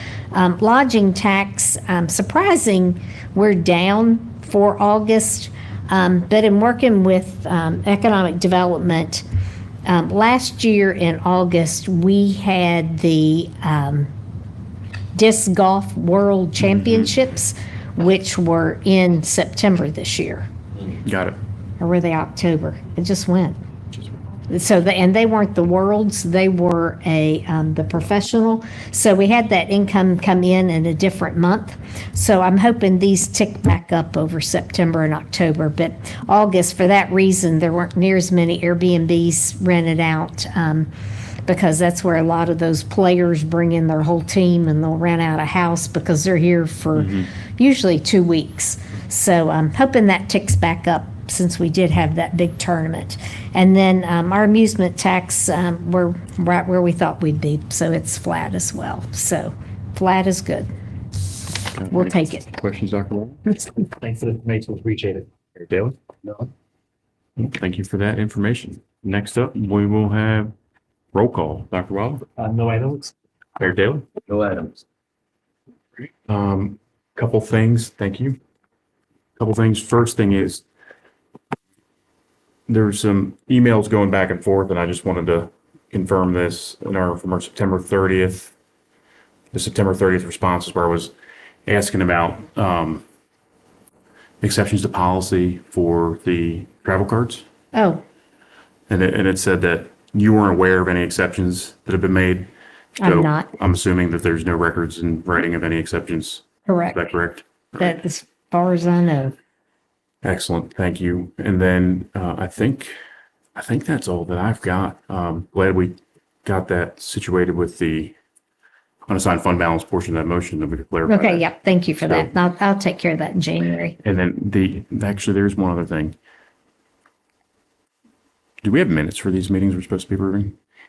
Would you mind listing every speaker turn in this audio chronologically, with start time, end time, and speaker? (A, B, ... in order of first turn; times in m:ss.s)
0:00.3-0:09.2 A
0:09.9-0:14.1 A
0:15.2-0:20.5 A
0:21.0-0:21.4 B
0:21.8-0:23.6 A
0:24.5-0:40.9 A
0:41.5-1:00.7 A
1:01.8-1:03.4 B
1:01.9-1:02.5 A
1:04.0-1:06.4 C
1:07.4-1:10.5 B
1:11.1-1:12.3 B
1:12.4-1:13.1 C
1:13.6-1:14.1 B
1:16.3-1:18.4 B
1:19.4-1:20.6 B
1:22.7-1:28.5 B
1:29.5-1:31.1 B
1:31.7-1:33.0 B
1:34.4-1:37.4 B
1:37.7-1:38.0 A
1:38.9-1:42.5 B
1:43.0-1:43.5 A
1:43.0-1:48.0 B
1:46.7-1:47.0 A
1:47.8-1:49.4 A
1:50.2-1:52.9 B
1:53.6-1:58.2 B
1:59.1-2:01.4 B
2:01.1-2:04.0 A
2:02.0-2:02.3 B
2:04.0-2:06.2 B
2:08.6-2:10.6 B